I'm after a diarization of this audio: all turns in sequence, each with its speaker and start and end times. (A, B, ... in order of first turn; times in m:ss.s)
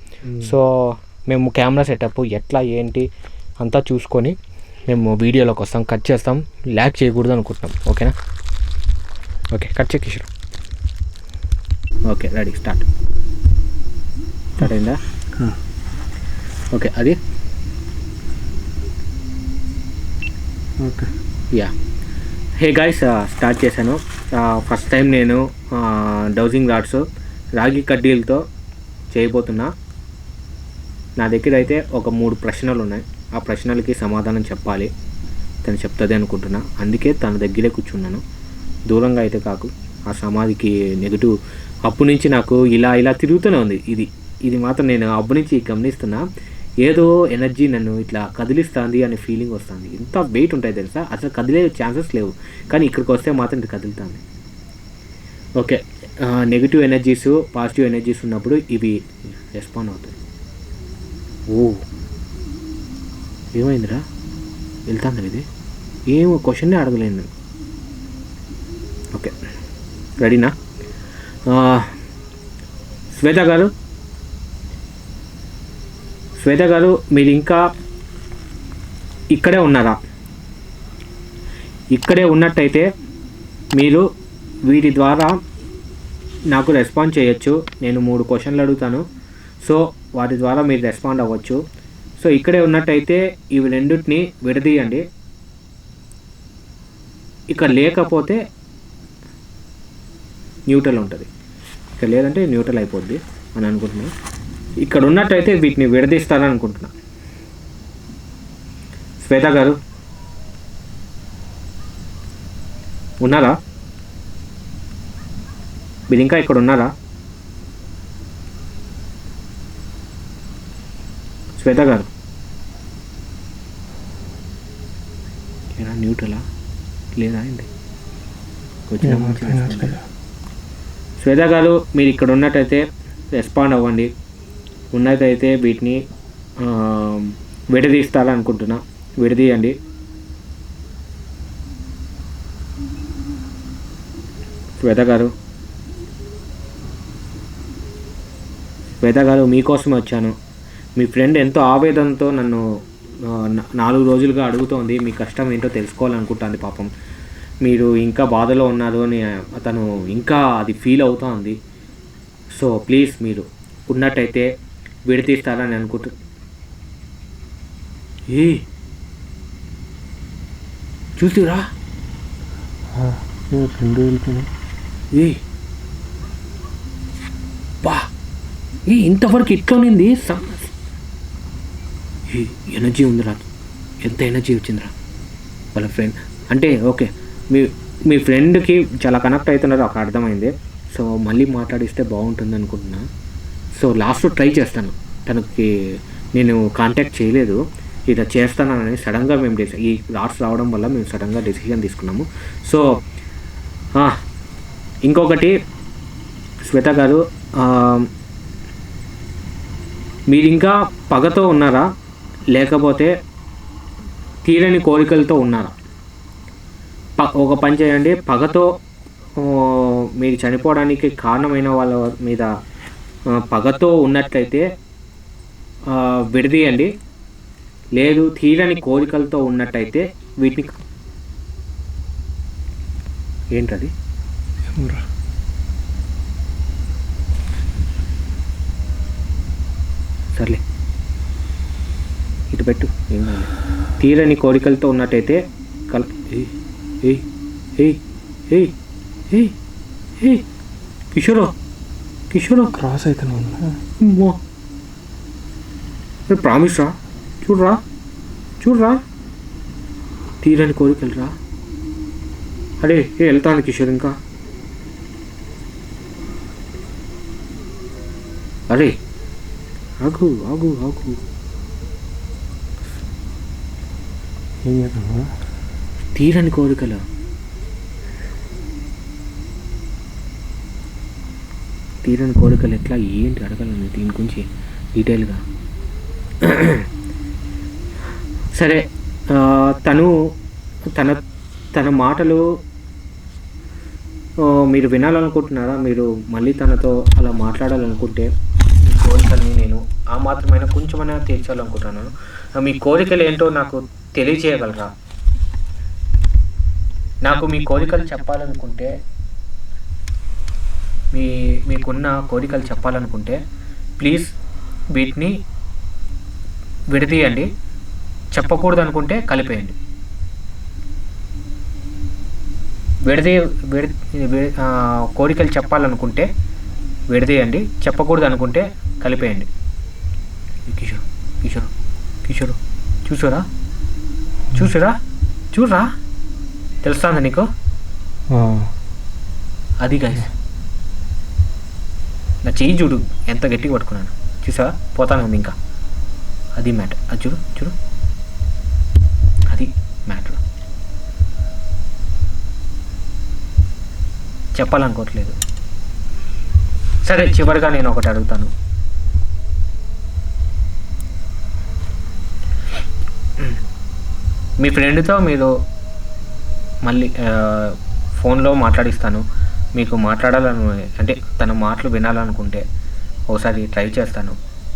0:00.2-0:00.6 A
0:00.4-0:03.0 B
0:03.6-0:04.3 B
0:04.9-0:08.1 B
0:09.5-0:10.3 B
0:12.1-0:12.9 B
0:14.6-0:15.0 B
0:15.3-0:15.6 A
0:16.7-0:17.2 B
0:20.8-0:21.1 A
0:22.6-0:27.0 B
0:27.6-0:28.4 B
0:29.1-0:29.7 B
0:31.2-0:34.9 B
0:35.6-0:38.2 B
0:38.9-0:41.3 B
0:41.8-0:46.2 B
0:46.8-0:54.2 B
0:55.6-1:00.1 B
1:01.5-1:01.8 B
1:03.5-1:04.0 B
1:04.9-1:05.4 B
1:06.1-1:07.3 B
1:10.2-1:10.5 B
1:11.5-1:11.9 B
1:13.1-1:13.7 B
1:16.4-1:17.6 B
1:19.3-1:20.0 B
1:21.9-1:22.8 B
1:23.8-1:24.0 B
1:24.7-1:25.3 B
1:26.5-1:29.0 B
1:29.6-1:31.6 B
1:32.2-1:35.0 B
1:37.5-1:38.4 B
1:40.7-1:41.3 B
1:42.0-1:44.1 B
1:44.8-1:46.9 B
1:49.2-1:49.8 B
1:53.2-1:53.6 B
1:56.1-1:56.9 B
2:01.6-2:02.1 B
2:05.7-2:06.4 B
2:07.2-2:07.7 B
2:08.9-2:10.0 B
2:09.0-2:10.0 A
2:11.2-2:14.1 B
2:14.9-2:16.0 B
2:16.6-2:19.7 B
2:24.8-2:25.3 B
2:29.0-2:30.3 B
2:31.0-2:32.6 B
2:33.2-2:36.9 B
2:37.6-2:41.6 B
2:42.5-2:44.5 B
2:45.1-2:46.1 B
2:48.3-2:48.6 B
2:51.2-2:51.7 B
2:52.9-2:54.5 A
2:55.1-2:55.4 B
2:57.8-2:58.1 B
2:58.9-3:00.7 B
3:02.3-3:03.4 B
3:04.0-3:04.9 B
3:05.7-3:13.0 B
3:13.8-3:15.7 B
3:16.4-3:23.0 B
3:25.0-3:25.6 B
3:26.6-3:28.1 B
3:30.3-3:31.9 B
3:32.5-3:33.2 B
3:34.4-3:35.8 B
3:37.2-3:38.8 B
3:39.4-3:42.5 B
3:43.3-3:44.7 B
3:45.9-3:46.9 B
3:48.0-3:50.7 B
3:53.5-3:53.9 B
3:54.7-3:55.0 A
4:00.3-4:00.6 B
4:02.5-4:07.2 B
4:07.8-4:08.7 B
4:09.3-4:09.6 B
4:10.2-4:10.4 B
4:11.1-4:11.5 B
4:12.3-4:12.7 B
4:12.7-4:13.8 A
4:14.0-4:14.4 B
4:16.3-4:17.8 B
4:18.6-4:19.0 B
4:20.4-4:21.4 B
4:22.8-4:24.2 B
4:30.0-4:31.2 B
4:34.6-4:35.3 A
4:36.1-4:37.0 B
4:42.0-4:45.4 B
4:46.4-4:46.9 B
4:48.5-4:50.2 B
4:50.9-4:51.2 B
4:51.7-4:52.6 B
4:54.4-4:58.3 B
4:58.8-5:04.9 B
5:07.2-5:09.0 B
5:11.1-5:13.4 B
5:14.0-5:14.3 B
5:14.9-5:15.4 B
5:16.9-5:17.5 B
5:18.3-5:19.7 B
5:23.0-5:26.3 B
5:27.1-5:29.5 B
5:30.7-5:31.7 B
5:32.2-5:33.5 B
5:34.5-5:35.0 B
5:35.5-5:35.9 B
5:36.8-5:37.5 B
5:38.3-5:38.7 A
5:39.8-5:40.3 B
5:42.4-5:45.5 B
5:46.6-5:47.7 B
5:49.4-5:50.4 B
5:54.5-5:55.4 B
5:57.0-5:58.5 B
6:04.6-6:05.5 B
6:06.8-6:09.2 B
6:09.8-6:12.6 B
6:13.3-6:14.4 B